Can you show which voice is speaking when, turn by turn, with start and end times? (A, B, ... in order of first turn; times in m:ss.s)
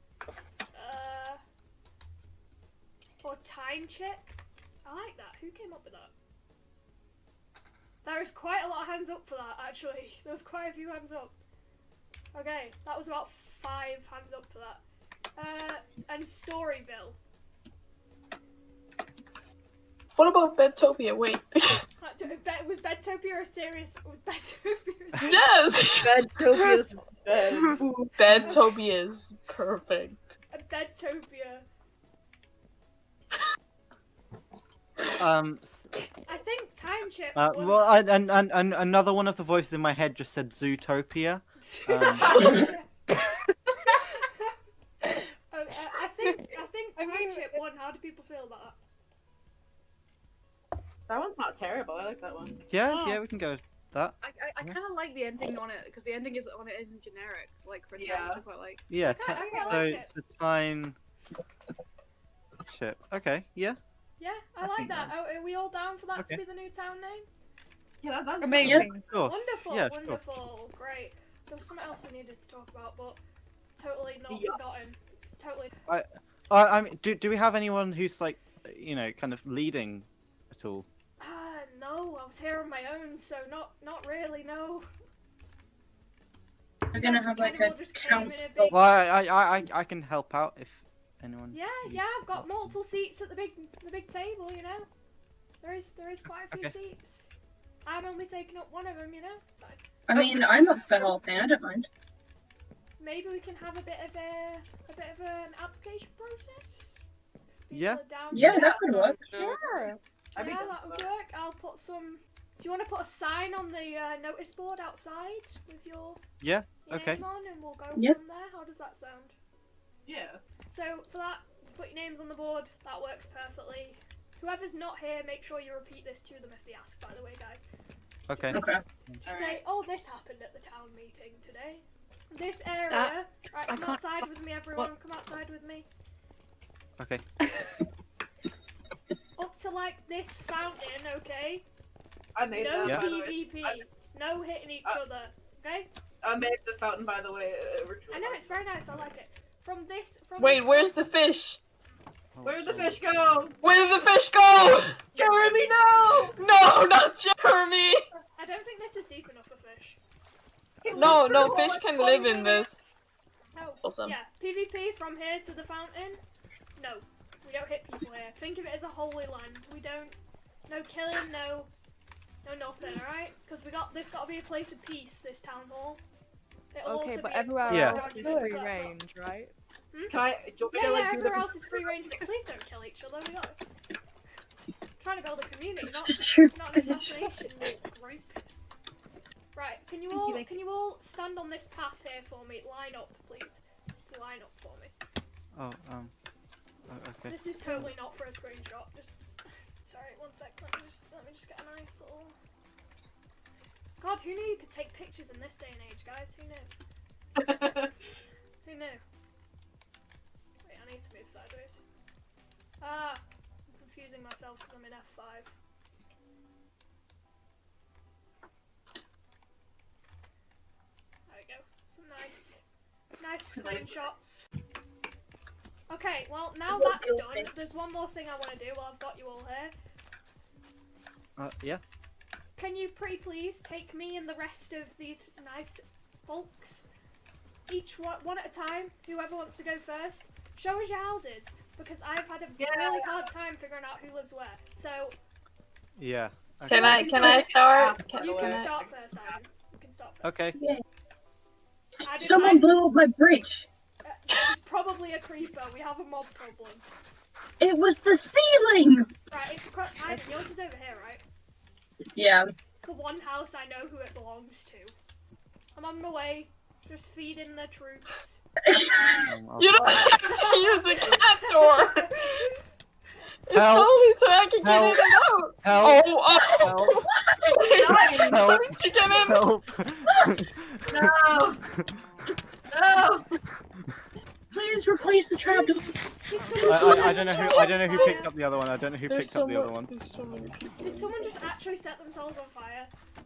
0:00.7-0:01.4 A
0:03.2-0:04.2 A
0:04.8-0:06.1 A
0:08.0-0:11.3 A
0:12.3-0:14.8 A
0:15.4-0:17.2 A
0:20.2-0:21.8 B
0:22.0-0:25.4 A
0:25.2-0:26.2 B
0:25.9-0:27.8 C
0:27.6-0:30.2 B
0:30.5-0:31.6 A
0:35.2-0:35.8 D
0:36.3-0:38.0 A
0:37.4-0:42.6 D
0:41.6-0:42.9 A
0:43.9-0:44.3 A
0:45.5-0:48.8 A
0:47.0-0:47.6 E
0:51.1-0:52.7 C
0:52.7-0:54.7 D
0:54.2-0:58.8 F
0:57.9-0:58.4 C
0:58.9-1:01.0 D
0:59.0-1:00.1 A
1:02.7-1:03.8 D
1:04.2-1:07.3 A
1:04.6-1:05.1 D
1:06.2-1:06.4 D
1:08.0-1:08.9 C
1:08.4-1:09.0 E
1:08.6-1:10.2 D
1:09.2-1:13.2 A
1:13.8-1:15.7 A
1:14.3-1:14.8 C
1:15.9-1:20.9 D
1:21.2-1:24.9 A
1:26.9-1:28.8 G
1:26.9-1:28.9 A
1:28.7-1:32.7 D
1:31.5-1:34.9 A
1:35.6-1:37.3 A
1:37.8-1:39.8 A
1:40.1-1:41.9 G
1:43.0-1:47.0 A
1:47.7-1:49.2 A
1:47.7-1:48.6 D
1:48.3-1:49.3 G
1:49.3-1:49.7 C
1:49.3-1:50.0 E
1:50.3-1:56.2 A
1:50.3-1:51.1 C
1:56.4-1:57.2 D
1:56.8-1:59.4 A
2:00.0-2:00.4 C
2:00.7-2:07.6 A
2:08.3-2:09.2 D
2:08.3-2:08.6 A
2:08.5-2:08.8 G
2:09.2-2:09.6 C
2:09.2-2:15.9 A
2:13.7-2:14.0 F
2:17.0-2:17.2 D
2:19.4-2:21.6 A
2:22.3-2:23.8 C
2:22.5-2:25.9 A
2:26.2-2:28.6 C
2:28.1-2:31.0 A
2:30.4-2:31.6 B
2:32.3-2:33.1 D
2:32.4-2:33.6 C
2:33.6-2:35.0 B
2:35.1-2:36.4 C
2:36.3-2:38.1 B
2:38.4-2:40.0 A
2:40.8-2:42.0 C
2:40.9-2:42.9 B
2:42.0-2:42.7 A
2:43.5-2:46.2 A
2:43.8-2:44.2 B
2:46.8-2:50.2 A
2:50.7-2:51.7 A
2:52.4-2:56.0 A
2:56.7-2:59.0 A
2:56.8-2:59.5 E
2:57.7-2:58.1 D
2:59.9-3:00.2 A
3:00.1-3:01.9 C
3:00.7-3:03.6 A
3:05.0-3:08.4 A
3:05.8-3:07.3 G
3:09.5-3:14.9 A
3:10.1-3:10.5 E
3:15.5-3:16.1 D
3:16.9-3:17.9 D
3:17.3-3:19.2 A
3:19.8-3:22.4 A
3:24.0-3:26.7 A
3:27.4-3:27.8 C
3:28.6-3:29.0 A
3:30.6-3:31.8 A
3:32.8-3:35.5 A
3:41.3-3:42.6 A
3:43.2-3:44.5 A
3:43.5-3:44.1 C
3:45.9-3:49.8 A
3:46.7-3:47.5 G
3:51.4-3:51.8 D
3:52.6-3:56.9 A
3:57.7-4:05.2 A
4:02.6-4:03.2 C
4:06.0-4:07.2 D
4:06.7-4:08.7 B
4:06.9-4:09.4 C
4:08.2-4:10.5 A
4:10.2-4:10.6 D
4:10.6-4:10.8 G
4:12.0-4:12.8 A
4:12.1-4:13.6 G
4:14.0-4:16.8 A
4:17.6-4:19.1 G
4:19.3-4:21.2 A
4:20.1-4:20.4 E
4:22.1-4:22.4 G
4:22.8-4:24.9 A
4:25.8-4:28.4 A
4:28.6-4:29.3 G
4:29.2-4:30.0 D
4:29.6-4:32.5 B
4:33.5-4:39.4 B
4:33.5-4:34.0 D
4:34.6-4:36.1 D
4:36.6-4:37.0 D
4:37.3-4:38.2 G
4:37.7-4:38.4 C
4:38.2-4:41.1 D
4:40.9-4:41.6 C
4:42.7-4:43.3 C
4:44.5-4:46.0 G
4:46.2-4:48.3 A
4:46.6-4:49.9 D
4:46.7-4:47.2 G
4:47.2-4:48.3 B
4:49.0-4:51.1 B
4:50.8-4:52.9 A